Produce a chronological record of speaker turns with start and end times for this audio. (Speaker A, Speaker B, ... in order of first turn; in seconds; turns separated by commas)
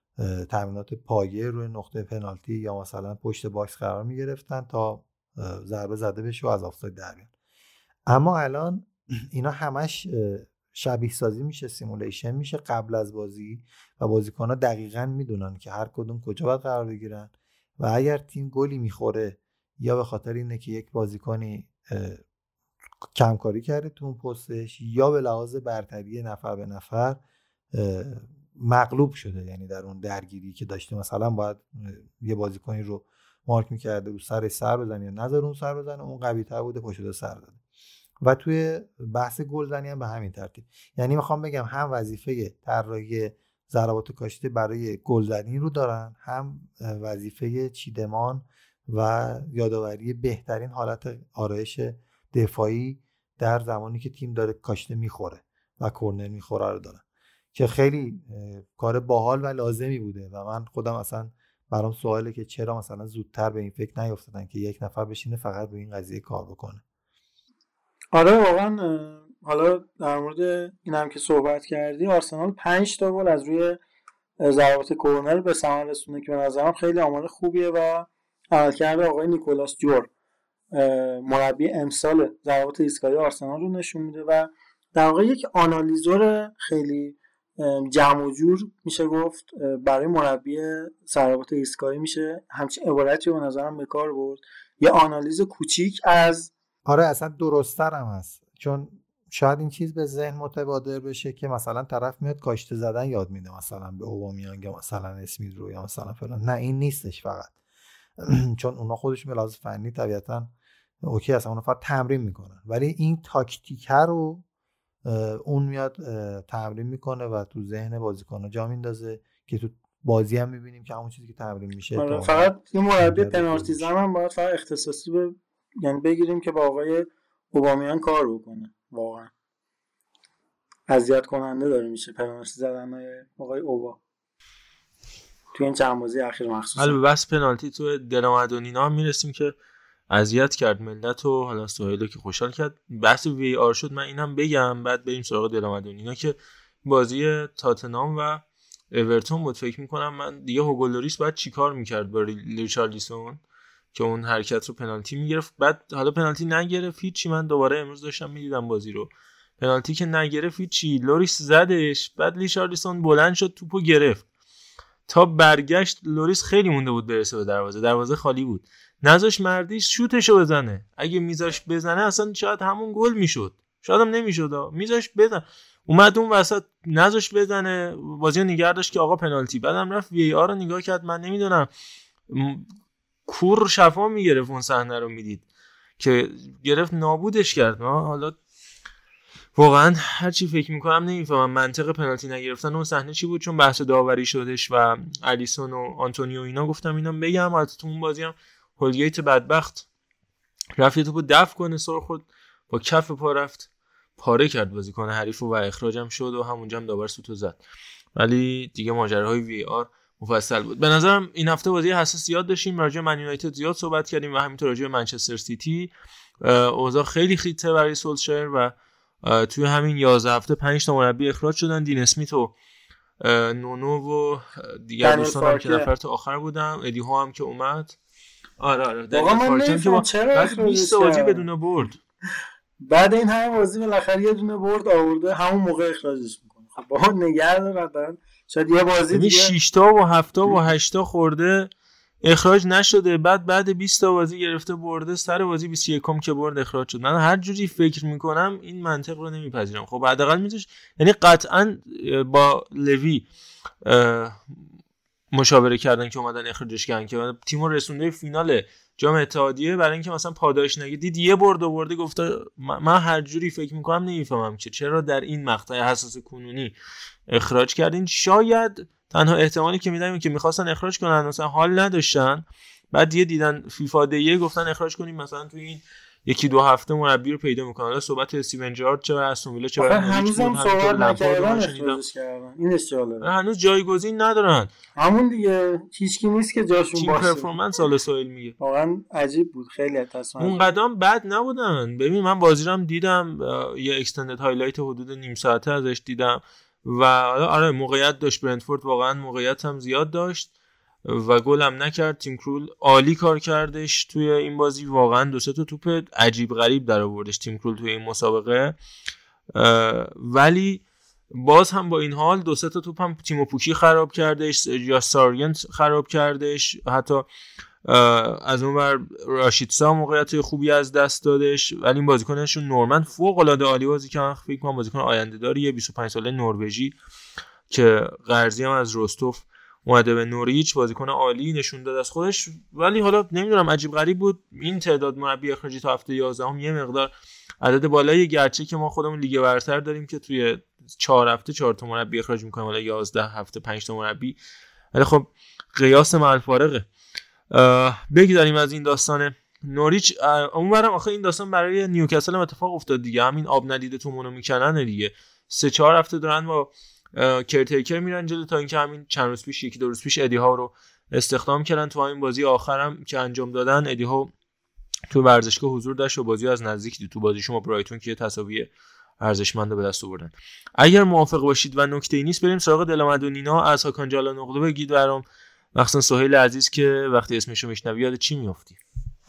Speaker A: 0.2-7.3, Speaker A: 8.1-22.2, Speaker A: 23.1-27.2, Speaker A: 27.7-37.6, Speaker A: 38.2-57.0, Speaker A: 57.5-66.8, Speaker B: 68.1-73.8, Speaker B: 74.4-80.1, Speaker B: 80.7-96.5, Speaker A: 96.8-107.6, Speaker A: 108.2-114.5, Speaker A: 115.0-123.9, Speaker B: 122.0-129.3, Speaker B: 130.9-134.0, Speaker B: 135.5-137.0, Speaker C: 136.8-139.5, Speaker C: 140.1-153.4, Speaker C: 153.9-164.2, Speaker C: 165.1-181.7, Speaker C: 182.3-182.7, Speaker C: 183.3-185.4, Speaker C: 186.0-188.4, Speaker C: 189.6-199.9, Speaker C: 200.8-207.6, Speaker C: 208.2-222.5, Speaker C: 223.2-228.0, Speaker B: 225.0-225.9, Speaker C: 228.6-232.0, Speaker B: 229.1-231.5, Speaker B: 232.9-239.5, Speaker C: 239.1-241.7, Speaker C: 242.2-253.2, Speaker C: 253.8-254.6, Speaker C: 255.3-266.8, Speaker C: 267.3-282.0, Speaker B: 279.8-283.3, Speaker C: 283.2-284.7, Speaker B: 285.0-287.5, Speaker C: 286.9-288.6, Speaker B: 288.6-290.6, Speaker C: 290.4-300.5, Speaker C: 301.1-308.8, Speaker C: 309.6-310.8, Speaker C: 311.3-317.2, Speaker C: 317.9-327.0, Speaker C: 327.7-344.4, Speaker C: 344.9-346.9, Speaker C: 347.5-364.3, Speaker C: 365.1-375.2, Speaker C: 375.8-378.8